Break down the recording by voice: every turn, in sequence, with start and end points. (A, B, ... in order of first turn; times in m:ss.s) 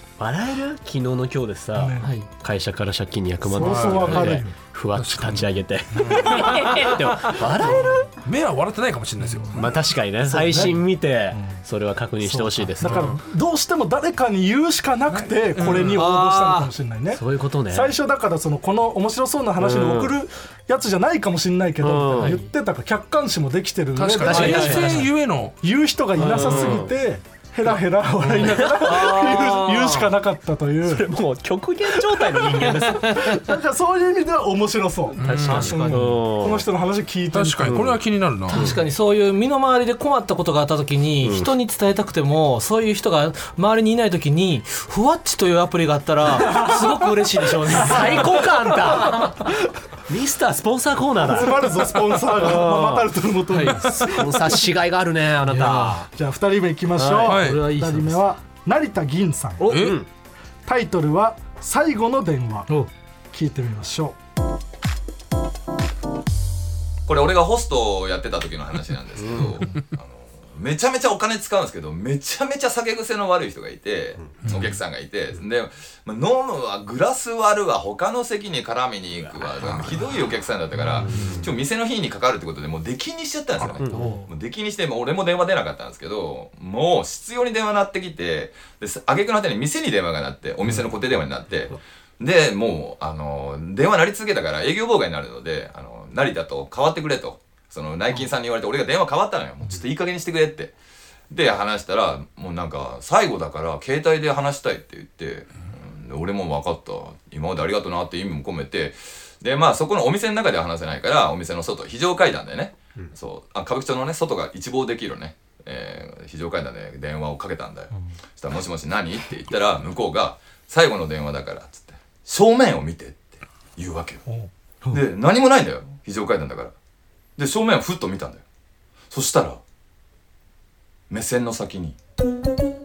0:00.2-0:08.1 A
0:01.7-0:02.1 B
0:02.0-0:02.2 C
0:03.4-0:04.5 B
0:03.6-0:04.4 D
0:04.9-0:06.8 D
0:07.6-0:09.8 D
0:09.2-0:09.6 B
0:09.5-0:13.1 A
0:10.2-0:11.6 B
0:12.2-0:25.0 B
0:12.8-0:13.2 D
0:15.6-0:16.0 D
0:15.8-0:16.7 C
0:17.1-0:17.9 A
0:19.6-0:20.1 A
0:21.8-0:22.4 A
0:24.0-0:25.5 D
0:24.2-0:25.0 A
0:24.3-0:24.9 C
0:25.6-0:31.1 B
0:26.2-0:26.9 A
0:26.3-0:26.8 D
0:28.2-0:28.6 D
0:28.7-0:30.1 C
0:30.8-0:33.5 A
0:32.8-0:37.9 B
0:35.2-0:35.8 D
0:35.2-0:36.7 A
0:35.6-0:36.1 C
0:37.3-0:38.7 D
0:37.6-0:38.0 A
0:38.5-0:38.8 A
0:38.5-0:48.3 C
0:41.2-0:41.5 A
0:46.4-0:46.8 A
0:47.6-0:53.1 A
0:51.2-0:54.5 B
0:53.5-0:54.1 C
0:54.0-0:56.1 A
0:55.5-0:56.0 C
0:56.1-0:59.8 B
0:57.0-0:57.3 A
0:57.2-0:57.6 D
0:57.3-0:58.2 C
0:59.6-1:00.0 D
0:59.7-1:00.1 A
1:00.6-1:02.7 B
1:03.3-1:04.2 B
1:07.0-1:40.7 E
1:09.2-1:09.6 A
1:14.2-1:14.6 A
1:14.4-1:14.8 D
1:19.6-1:20.0 D
1:21.0-1:21.5 A
1:23.8-1:24.2 A
1:23.9-1:24.2 C
1:41.3-2:04.2 E
2:04.3-2:05.0 B
2:04.9-2:06.7 E
2:07.4-2:08.4 E
2:09.1-2:09.6 E
2:11.1-2:12.0 E